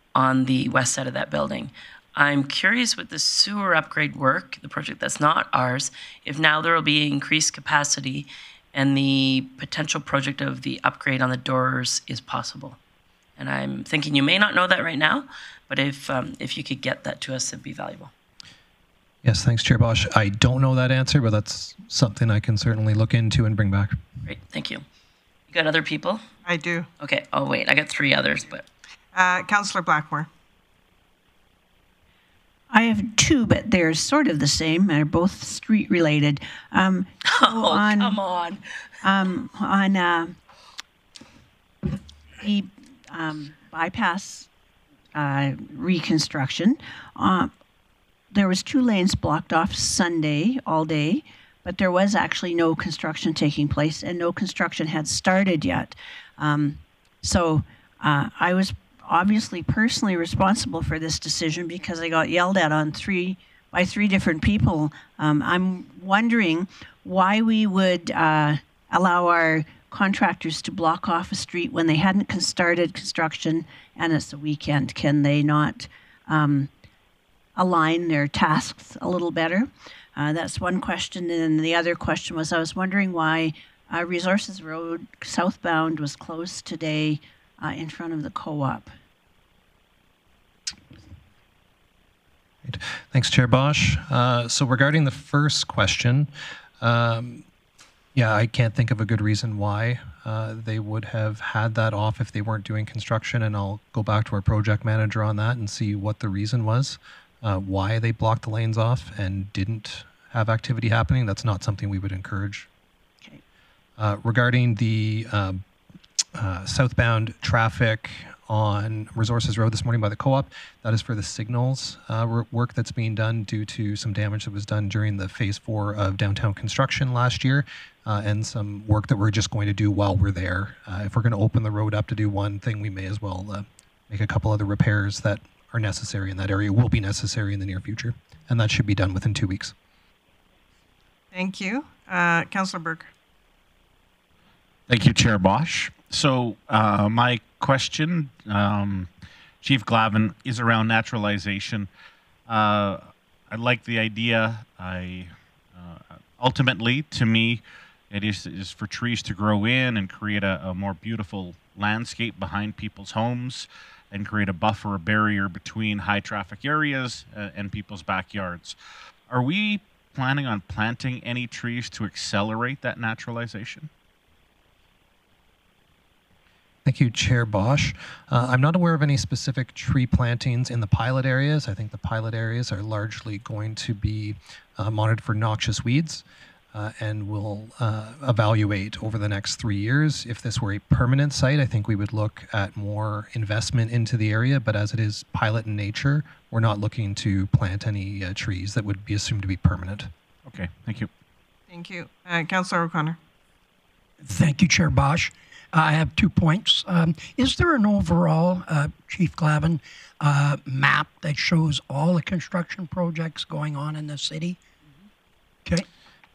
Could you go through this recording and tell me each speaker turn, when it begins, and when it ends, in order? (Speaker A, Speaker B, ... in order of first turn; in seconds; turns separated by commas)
Speaker A: 0.1-12.8, Speaker A: 13.4-18.1, Speaker B: 19.2-24.0, Speaker A: 24.3-24.8, Speaker A: 25.5-26.2, Speaker C: 26.5-26.9, Speaker A: 27.0-28.7, Speaker C: 29.1-30.3, Speaker D: 32.7-38.2, Speaker A: 37.3-38.6, Speaker D: 39.0-40.4, Speaker D: 42.4-44.5, Speaker D: 45.1-47.5, Speaker D: 48.3-76.7, Speaker D: 77.6-88.9, Speaker B: 92.6-97.5, Speaker B: 98.1-112.7, Speaker B: 114.0-115.6, Speaker B: 116.3-139.7, Speaker C: 141.3-143.1, Speaker E: 144.9-149.1, Speaker E: 149.6-151.9, Speaker E: 152.5-168.8, Speaker E: 169.3-173.9, Speaker B: 176.8-200.1, Speaker E: 200.5-201.1, Speaker C: 201.7-203.2, Speaker F: 204.2-214.6